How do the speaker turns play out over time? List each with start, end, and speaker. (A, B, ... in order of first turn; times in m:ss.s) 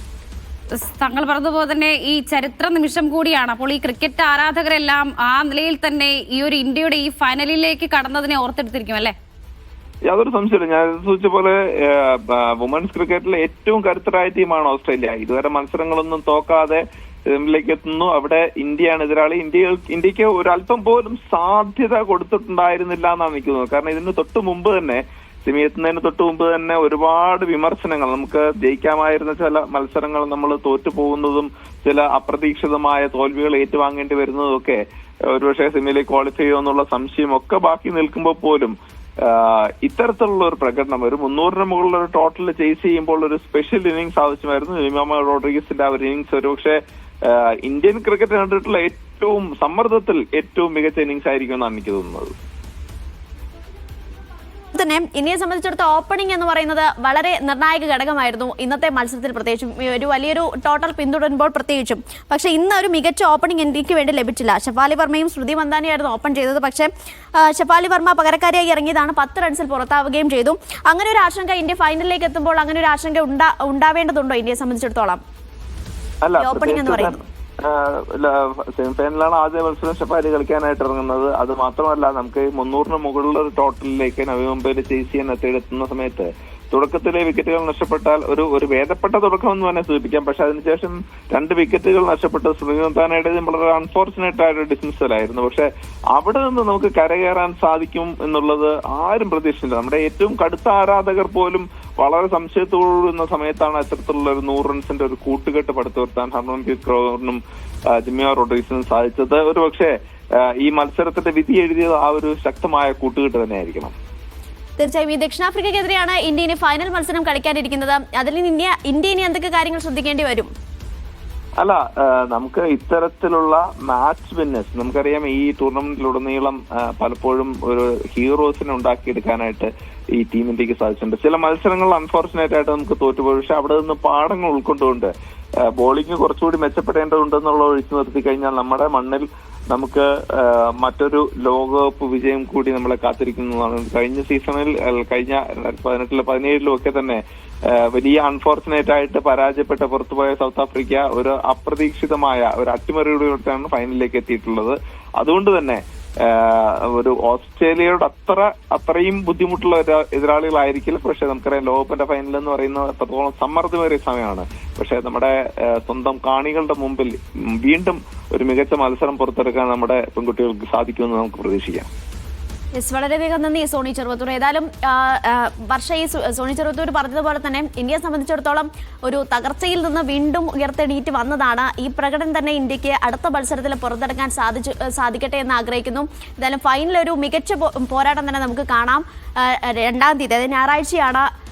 0:00.8-0:09.2 A
0:10.0-0:52.3 B
0:54.7-1:15.2 C
1:16.2-1:47.4 B
1:16.4-1:17.2 C
1:47.9-1:53.9 B
1:54.8-2:00.5 C
2:01.6-2:15.1 B
2:15.7-2:51.9 B
2:52.8-3:11.3 C